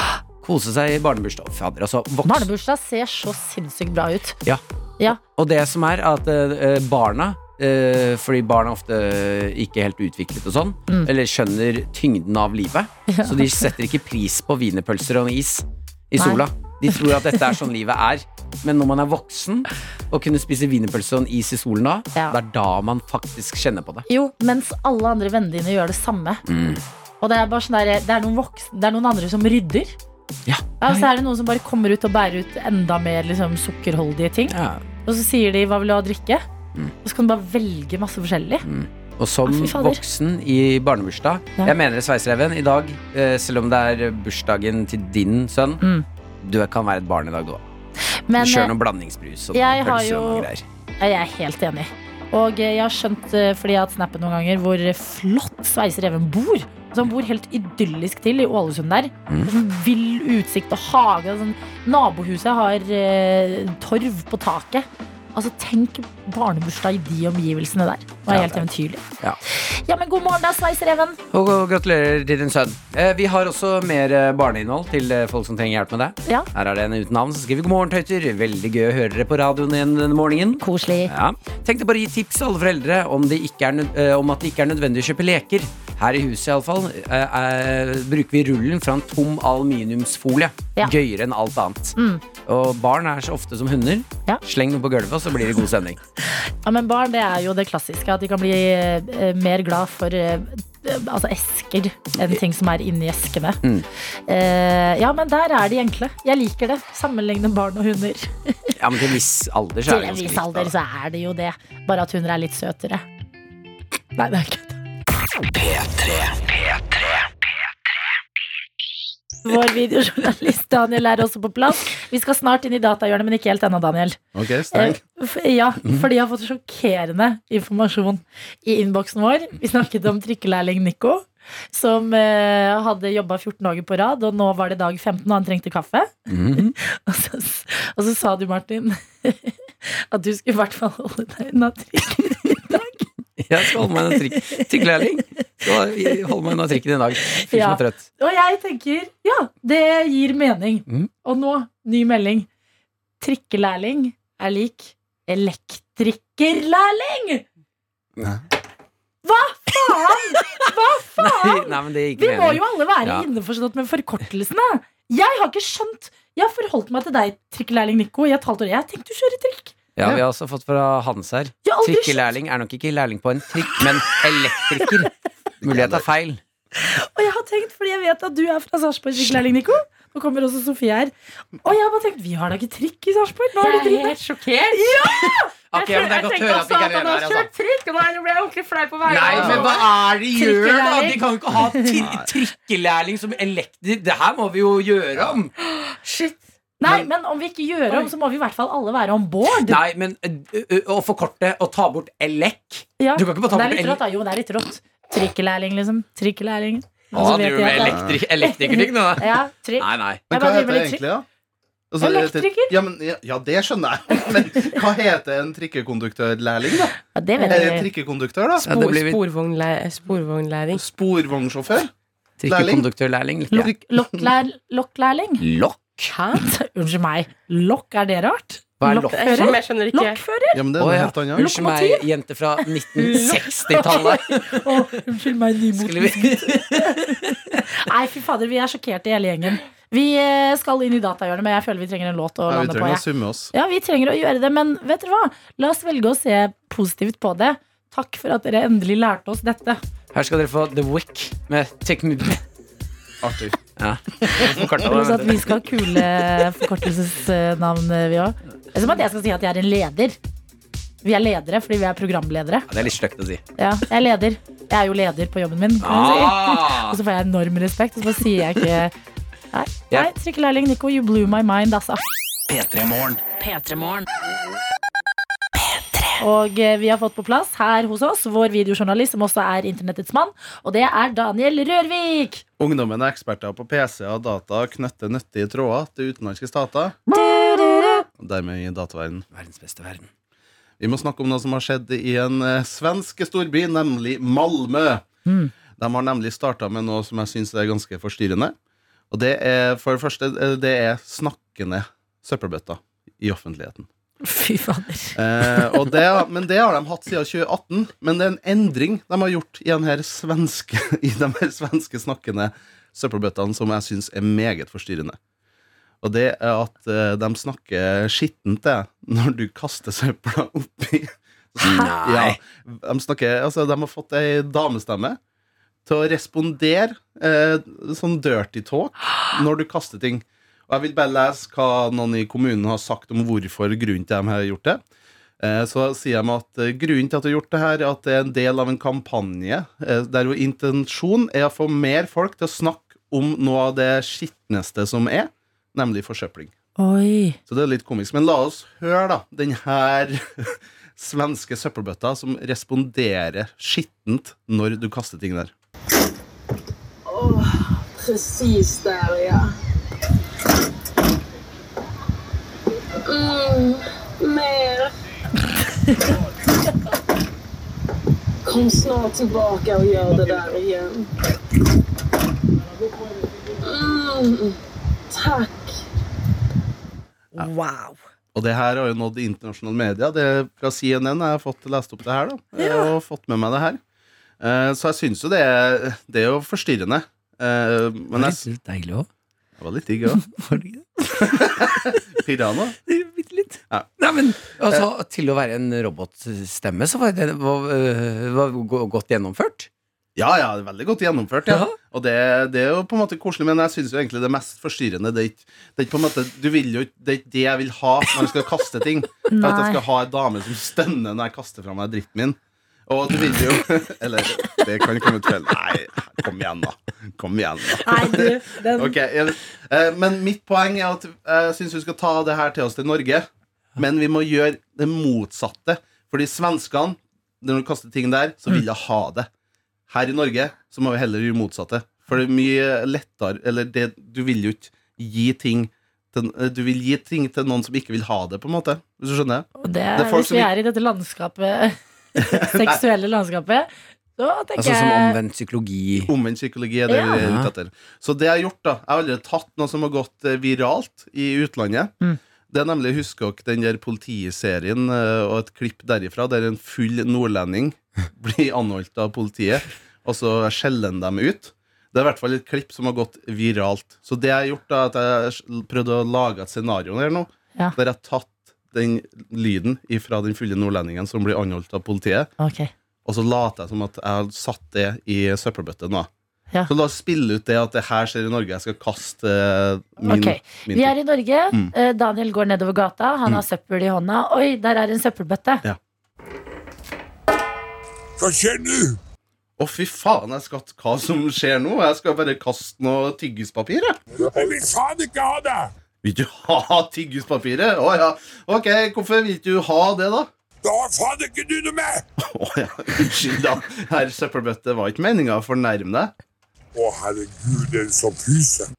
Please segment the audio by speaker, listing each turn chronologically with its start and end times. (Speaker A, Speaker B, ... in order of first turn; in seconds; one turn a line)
Speaker A: 0.4-2.5
Speaker B: 2.2-4.4
Speaker A: 4.4-24.1
Speaker B: 13.1-13.7
Speaker B: 16.2-17.5
Speaker B: 24.1-26.4
Speaker A: 26.4-26.8
Speaker B: 27.2-29.9
Speaker A: 30.4-31.1
Speaker B: 30.8-34.5
Speaker A: 34.5-34.8
Speaker B: 35.0-36.5
Speaker B: 37.0-38.6
Speaker A: 38.6-45.8
Speaker B: 39.5-40.0
Speaker A: 46.4-47.6
Speaker B: 48.3-48.7
Speaker A: 48.4-50.6
Speaker B: 49.5-50.5
Speaker B: 51.0-71.2
Speaker A: 68.3-68.7
Speaker A: 71.3-96.0
Speaker B: 80.6-81.1
Speaker B: 92.0-92.2
Speaker B: 96.2-103.6
Speaker B: 104.3-108.7
Speaker A: 108.8-110.7
Speaker B: 109.9-113.0
Speaker B: 114.2-114.8
Speaker C: 115.5-117.4
Speaker B: 119.4-124.2
Speaker D: 124.3-125.0
Speaker B: 124.7-143.1
Speaker A: 136.3-136.7
Speaker A: 143.4-148.0
Speaker B: 143.7-145.2
Speaker B: 146.0-146.3
Speaker B: 147.3-152.5
Speaker B: 153.2-157.4
Speaker B: 159.2-169.8
Speaker A: 161.2-163.3
Speaker A: 169.9-175.1
Speaker B: 171.6-172.3
Speaker A: 175.6-176.4
Speaker D: 175.6-176.0
Speaker B: 176.8-184.1
Speaker E: 183.5-185.1
Speaker B: 184.7-185.5
Speaker A: 185.7-187.5
Speaker E: 185.7-189.8
Speaker A: 189.0-195.5
Speaker D: 189.3-189.8
Speaker B: 190.3-191.9
Speaker D: 191.8-192.2
Speaker E: 195.6-196.4
Speaker B: 196.8-199.8
Speaker A: 199.6-204.0
Speaker B: 203.0-211.0
Speaker A: 207.1-210.2
Speaker D: 207.2-208.2
Speaker D: 210.3-211.2
Speaker D: 211.9-216.9
Speaker B: 212.0-212.7
Speaker B: 216.9-217.8
Speaker E: 217.4-217.8
Speaker D: 217.5-218.7
Speaker A: 218.6-219.2
Speaker E: 218.7-220.8
Speaker D: 220.7-221.9
Speaker A: 222.4-223.7
Speaker D: 222.5-222.9
Speaker B: 223.5-225.4
Speaker A: 225.4-226.1
Speaker E: 226.1-226.4
Speaker B: 226.3-230.6
Speaker A: 228.8-229.6
Speaker E: 229.1-230.2
Speaker D: 230.5-231.5
Speaker A: 230.8-235.0
Speaker B: 231.4-232.0
Speaker B: 233.0-249.8
Speaker A: 235.7-237.6
Speaker D: 242.5-243.5
Speaker A: 250.1-252.4
Speaker D: 253.2-253.6
Speaker A: 253.8-256.6
Speaker B: 254.2-260.2
Speaker D: 254.3-254.7
Speaker B: 261.0-262.7
Speaker A: 262.7-263.4
Speaker B: 263.6-268.9
Speaker A: 265.8-267.0
Speaker B: 269.5-272.0
Speaker C: 272.5-273.3
Speaker B: 273.4-274.0
Speaker B: 276.2-282.4
Speaker D: 282.6-287.0
Speaker B: 287.1-288.0
Speaker D: 288.2-289.3
Speaker A: 289.3-290.1
Speaker D: 290.8-295.0
Speaker B: 295.2-295.5
Speaker D: 295.8-298.5
Speaker D: 299.1-303.9
Speaker B: 304.2-305.7
Speaker D: 305.1-315.2
Speaker D: 316.0-325.2
Speaker A: 321.6-322.4
Speaker D: 325.8-334.8
Speaker D: 335.4-346.5
Speaker B: 346.8-347.4
Speaker D: 347.5-355.5
Speaker F: 357.1-359.5
Speaker F: 363.0-364.9
Speaker F: 368.4-371.1
Speaker F: 373.6-374.6
Speaker F: 375.1-375.8
Speaker B: 377.3-378.0
Speaker D: 378.3-383.8
Speaker B: 382.6-382.9
Speaker D: 384.4-388.4
Speaker A: 388.1-389.1
Speaker D: 389.6-390.3
Speaker A: 390.2-391.9
Speaker D: 391.2-392.7
Speaker A: 392.9-399.7
Speaker D: 400.2-429.3
Speaker A: 401.5-401.7
Speaker B: 409.3-409.8
Speaker B: 417.8-418.9
Speaker D: 429.9-440.5
Speaker B: 439.6-445.2
Speaker D: 442.2-442.8
Speaker A: 444.6-446.1
Speaker D: 446.1-451.9
Speaker B: 446.9-447.1
Speaker A: 447.1-447.5
Speaker D: 452.5-472.3
Speaker B: 472.4-472.7
Speaker D: 473.1-476.1
Speaker D: 476.7-480.9
Speaker B: 480.0-485.6
Speaker G: 488.2-489.0
Speaker D: 489.6-494.0
Speaker G: 494.1-495.7
Speaker D: 496.0-500.3
Speaker G: 500.6-502.0
Speaker D: 502.2-506.1
Speaker G: 506.7-508.7